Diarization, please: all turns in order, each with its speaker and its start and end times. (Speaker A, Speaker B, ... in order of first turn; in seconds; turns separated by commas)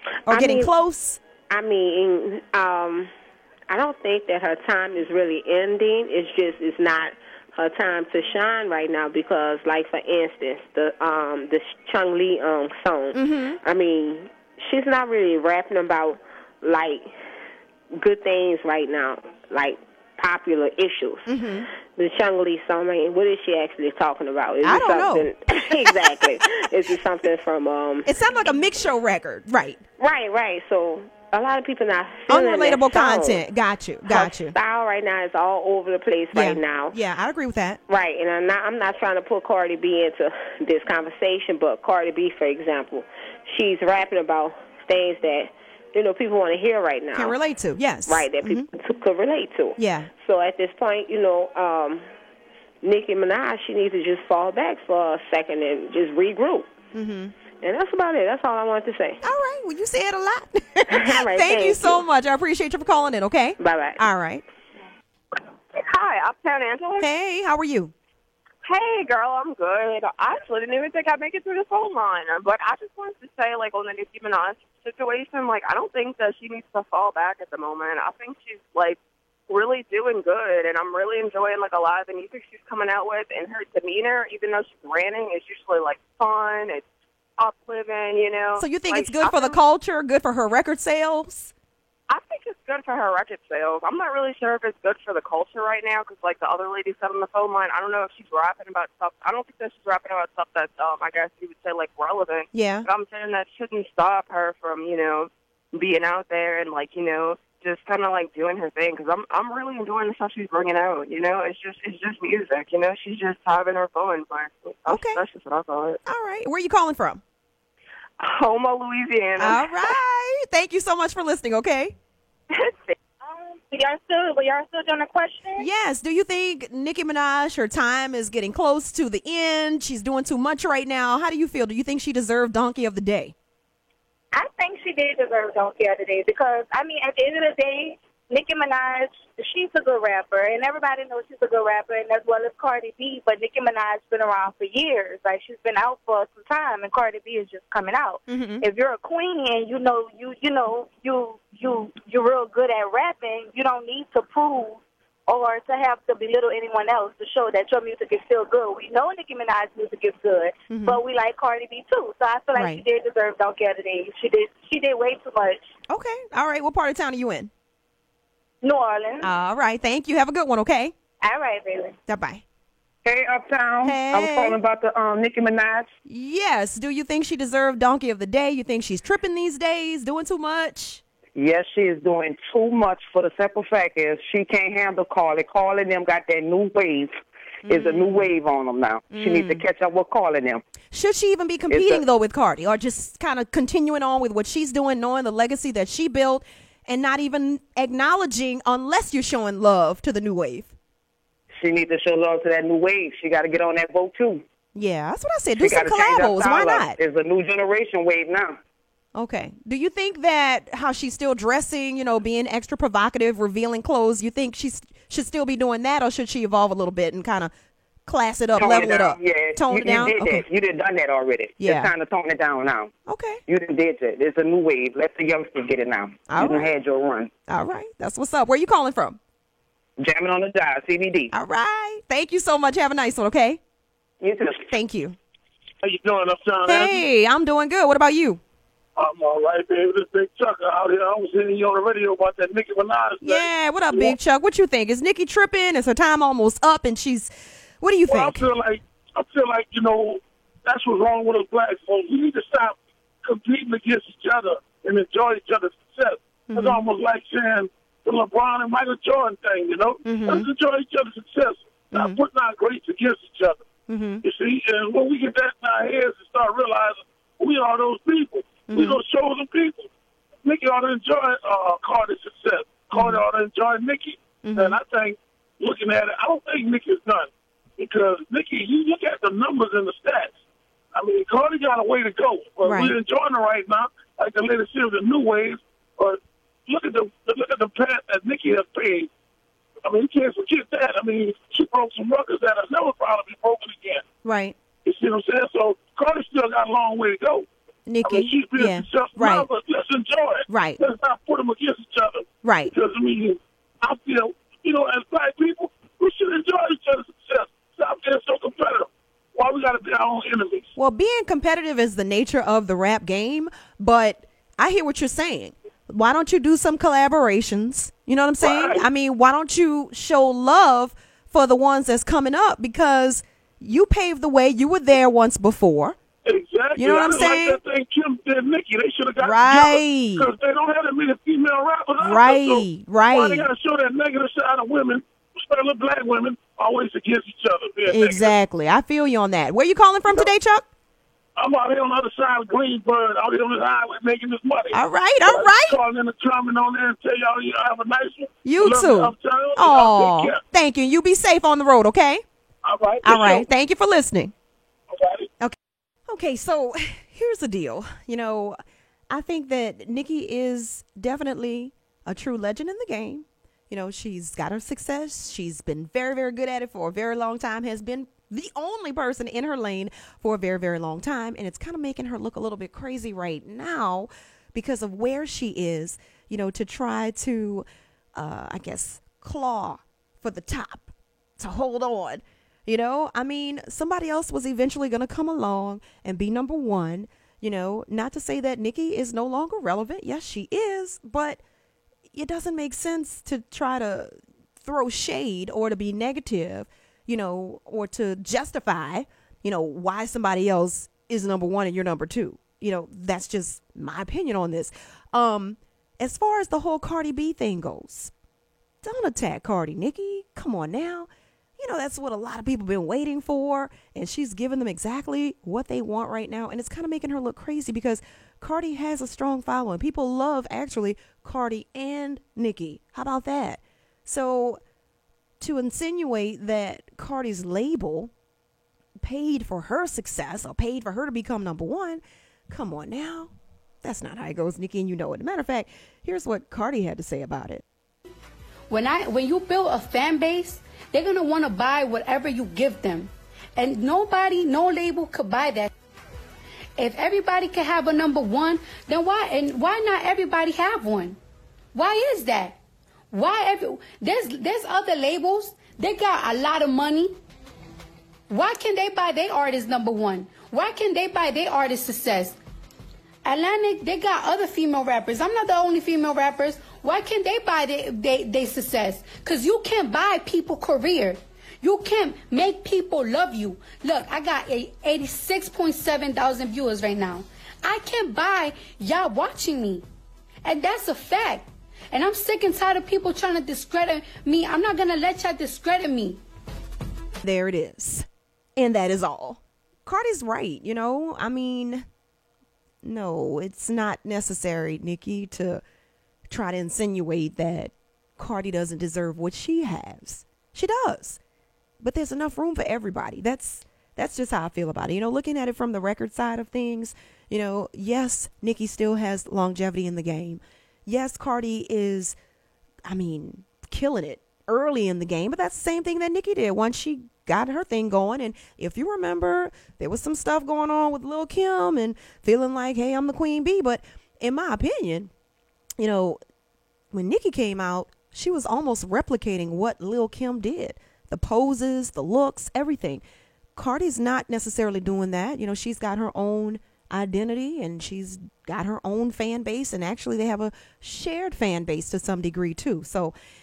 Speaker A: 0.3-1.2, Speaker B: 0.3-0.7, Speaker B: 1.5-3.1, Speaker B: 3.7-17.1, Speaker A: 13.1-13.6, Speaker B: 17.9-21.3, Speaker A: 21.3-21.7, Speaker B: 21.9-28.1, Speaker A: 24.6-26.2, Speaker A: 28.1-29.8, Speaker B: 30.0-33.4, Speaker A: 32.3-34.5, Speaker B: 34.1-37.0, Speaker A: 36.3-37.8, Speaker B: 37.9-47.4, Speaker A: 47.1-48.7, Speaker B: 48.1-52.1, Speaker A: 49.8-50.1, Speaker B: 52.8-56.7, Speaker A: 56.9-57.4, Speaker B: 57.6-59.2, Speaker A: 59.2-64.4, Speaker B: 60.9-62.0, Speaker B: 63.6-64.0, Speaker C: 65.8-67.1, Speaker A: 67.0-67.9, Speaker C: 68.7-79.0, Speaker C: 79.5-86.8, Speaker C: 87.4-89.6, Speaker A: 88.6-91.5, Speaker C: 92.1-116.0, Speaker A: 102.5-102.9, Speaker A: 114.9-115.2, Speaker A: 116.1-117.2, Speaker C: 118.2-119.8, Speaker A: 119.4-122.0, Speaker C: 122.5-123.0, Speaker D: 123.2-125.6, Speaker A: 125.6-133.3, Speaker D: 134.3-165.7, Speaker A: 148.3-148.7, Speaker A: 160.7-161.0, Speaker A: 162.6-162.8, Speaker A: 165.9-167.5, Speaker D: 168.6-169.3, Speaker A: 169.2-170.9, Speaker D: 171.2-171.9, Speaker A: 172.1-172.4, Speaker E: 173.1-175.9, Speaker A: 173.8-174.6, Speaker A: 176.1-181.0, Speaker E: 181.3-190.6, Speaker A: 187.7-188.3, Speaker A: 189.1-189.6, Speaker A: 190.9-200.8, Speaker E: 191.7-192.0, Speaker E: 201.6-204.4, Speaker A: 204.8-207.0, Speaker E: 205.6-208.6, Speaker A: 209.2-217.5, Speaker A: 218.1-220.5, Speaker E: 218.6-222.9, Speaker A: 221.6-221.9, Speaker A: 223.1-223.4, Speaker E: 223.5-227.3, Speaker A: 226.3-226.7, Speaker A: 227.5-229.2, Speaker E: 230.0-231.3, Speaker A: 231.3-233.6, Speaker E: 234.2-234.7, Speaker A: 234.7-235.2, Speaker F: 235.8-237.0, Speaker A: 236.7-238.4, Speaker F: 239.0-244.2, Speaker A: 243.2-248.5, Speaker F: 248.1-263.6, Speaker A: 256.5-256.8, Speaker A: 260.1-260.5, Speaker A: 261.9-262.2, Speaker A: 263.9-264.2, Speaker F: 264.2-269.9, Speaker A: 268.7-269.0, Speaker F: 270.4-280.3, Speaker A: 272.9-273.2, Speaker A: 274.4-274.8, Speaker F: 280.9-289.1, Speaker A: 282.6-282.9, Speaker F: 289.9-294.0, Speaker A: 294.2-294.6, Speaker F: 294.8-297.5, Speaker A: 297.9-299.5, Speaker F: 298.0-310.7, Speaker A: 300.5-300.8, Speaker A: 302.4-302.7, Speaker A: 310.8-326.0, Speaker F: 318.4-318.9, Speaker F: 326.2-338.4, Speaker A: 326.8-327.6, Speaker A: 329.2-330.3, Speaker A: 332.0-333.5, Speaker A: 337.9-340.6, Speaker F: 341.4-350.4, Speaker A: 344.7-345.8, Speaker A: 348.4-352.2, Speaker F: 352.6-353.5, Speaker A: 353.0-354.3, Speaker F: 354.9-355.3, Speaker A: 356.1-358.6, Speaker A: 359.1-391.4, Speaker A: 392.1-408.1, Speaker A: 408.8-424.6, Speaker A: 425.4-428.1, Speaker A: 429.0-433.3, Speaker A: 433.8-437.6, Speaker G: 438.7-445.7, Speaker G: 446.8-451.2, Speaker G: 451.7-452.6, Speaker G: 453.1-457.1, Speaker G: 458.3-462.4, Speaker G: 463.3-479.8, Speaker G: 480.4-486.2, Speaker A: 487.2-488.1, Speaker A: 488.6-491.8, Speaker A: 492.8-495.6, Speaker A: 496.3-501.2, Speaker A: 501.8-512.2, Speaker A: 512.9-525.1, Speaker A: 525.8-526.2, Speaker A: 526.9-533.0, Speaker A: 533.6-543.1